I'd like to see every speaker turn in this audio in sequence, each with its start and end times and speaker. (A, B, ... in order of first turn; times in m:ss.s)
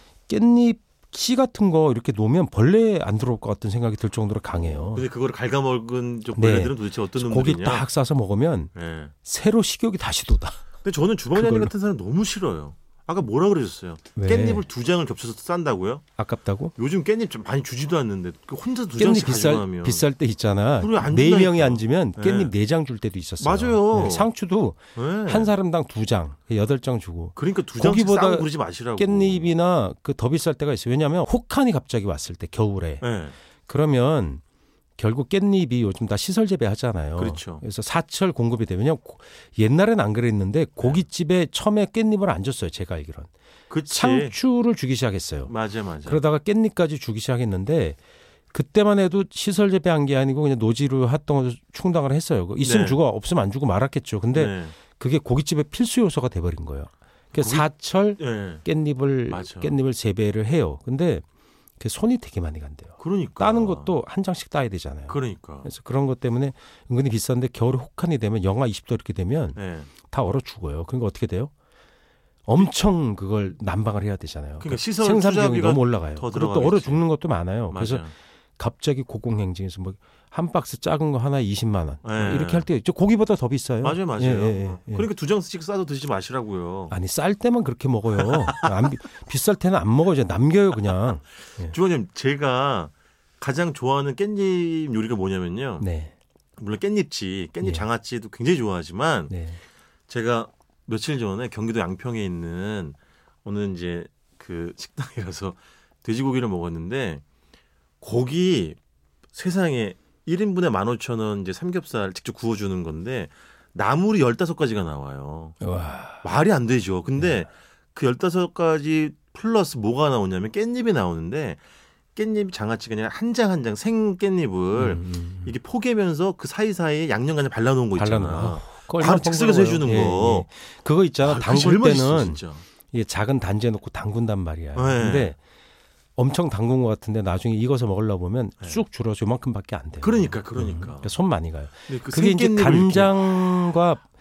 0:00.3-0:05.1 A
0:04.7-0:07.8 B
0:06.3-0:08.7 A
0:08.7-0:09.1 B
0:09.2-0:10.6 A
0:10.8-0:16.0 B
0:11.3-0:11.7 A
0:14.2-0:14.6 A
0:16.2-0:16.7 A
0:16.8-0:20.0 B
0:19.0-0:33.1 A
0:20.7-0:22.5 B
0:23.4-0:24.3 B
0:24.9-0:25.5 B
0:27.4-0:29.5 B
0:33.0-0:33.4 B
0:33.7-0:34.4 A
0:35.0-0:43.3 A
0:37.2-0:37.6 B
0:43.7-0:44.4 B
0:43.9-0:45.5 A
0:45.4-0:46.2 B
0:46.0-0:48.0 A
0:48.5-1:01.2 A
0:52.6-0:53.0 B
0:54.3-0:54.7 B
0:57.3-0:57.7 B
0:58.2-0:58.6 B
0:59.3-0:59.7 B
1:01.8-1:11.5 A
1:03.0-1:03.9 B
1:05.1-1:05.7 B
1:09.6-1:09.9 B
1:12.4-1:25.1 A
1:14.6-1:17.0 B
1:17.7-1:18.1 B
1:22.0-1:22.7 B
1:23.8-1:27.0 B
1:26.9-1:31.8 A
1:28.2-1:28.7 B
1:31.6-1:35.9 B
1:35.8-1:36.1 A
1:36.6-1:39.3 B
1:37.6-1:37.8 A
1:39.3-1:39.6 A
1:40.1-1:47.2 B
1:48.0-1:48.8 B
1:49.3-1:55.6 B
1:55.6-1:56.3 A
1:56.2-2:01.6 B
2:02.1-2:10.5 B
2:04.7-2:05.5 A
2:08.0-2:15.4 A
2:11.2-2:12.6 B
2:14.7-2:15.3 B
2:16.2-2:24.1 A
2:20.0-2:21.1 B
2:21.9-2:23.3 B